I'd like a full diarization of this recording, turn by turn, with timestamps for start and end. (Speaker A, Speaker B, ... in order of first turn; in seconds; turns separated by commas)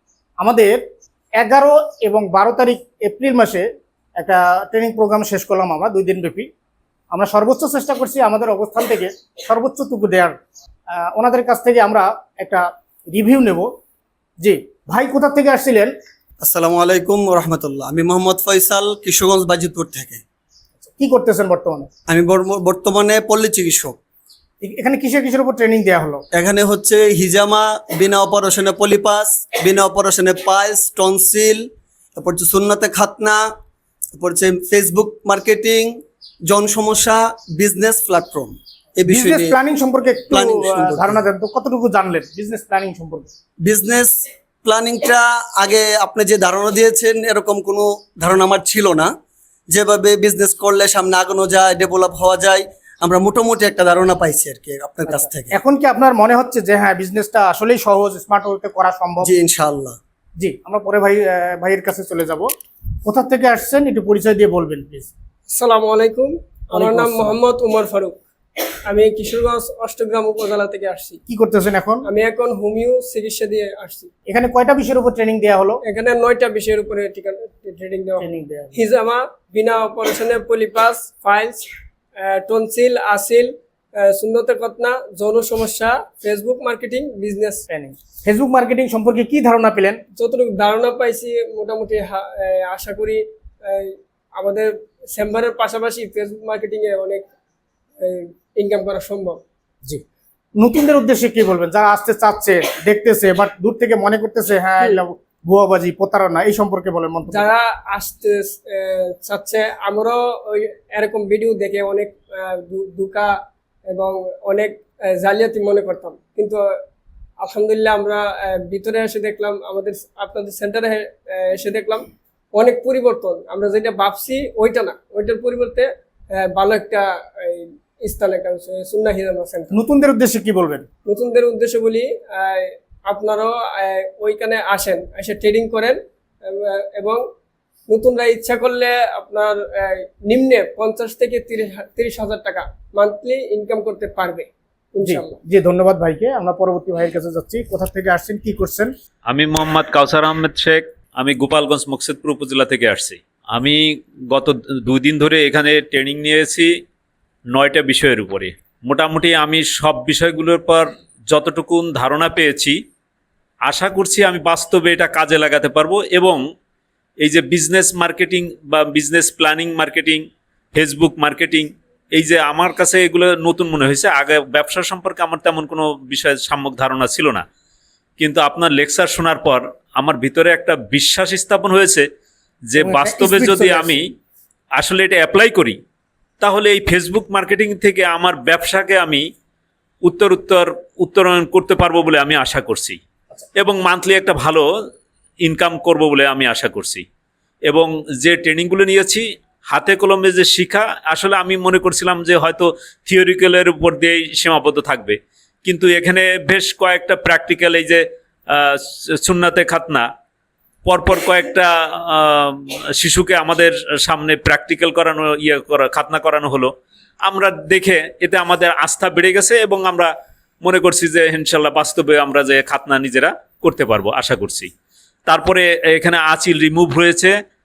Speaker A: 0.4-0.8, Speaker A: 1.4-3.7, Speaker A: 4.2-6.5, Speaker A: 7.1-10.4, Speaker A: 10.9-13.7, Speaker A: 14.4-15.9, Speaker B: 16.4-20.2, Speaker A: 20.8-21.9, Speaker B: 22.1-24.0, Speaker A: 24.6-26.2, Speaker B: 26.3-33.5, Speaker B: 34.1-39.6, Speaker A: 39.1-43.3, Speaker B: 40.3-41.2, Speaker B: 43.6-49.1, Speaker B: 49.7-55.6, Speaker A: 55.1-59.3, Speaker B: 59.2-60.0, Speaker A: 60.4-62.5, Speaker A: 63.0-65.1, Speaker C: 65.5-68.2, Speaker A: 66.7-67.4, Speaker C: 68.9-71.2, Speaker A: 71.3-72.1, Speaker C: 72.0-74.1, Speaker A: 74.3-75.8, Speaker C: 75.8-81.7, Speaker A: 78.2-78.8, Speaker C: 82.2-87.6, Speaker A: 87.7-90.0, Speaker C: 90.2-97.2, Speaker C: 98.0-99.4, Speaker A: 100.6-107.5, Speaker C: 107.3-113.3, Speaker C: 113.9-116.6, Speaker C: 117.4-129.8, Speaker A: 129.7-130.9, Speaker C: 131.1-137.2, Speaker C: 137.9-145.4, Speaker A: 145.0-148.9, Speaker D: 149.3-156.7, Speaker D: 157.5-162.8, Speaker D: 163.7-166.4, Speaker D: 167.2-177.4, Speaker D: 178.2-182.1, Speaker D: 182.7-184.1, Speaker A: 182.8-184.0, Speaker D: 184.8-185.8, Speaker D: 186.4-189.2, Speaker D: 190.1-193.0, Speaker D: 193.6-194.7, Speaker D: 195.4-197.1, Speaker D: 197.7-210.1, Speaker D: 210.9-216.7, Speaker D: 217.2-220.1, Speaker D: 220.6-224.7, Speaker D: 225.3-227.3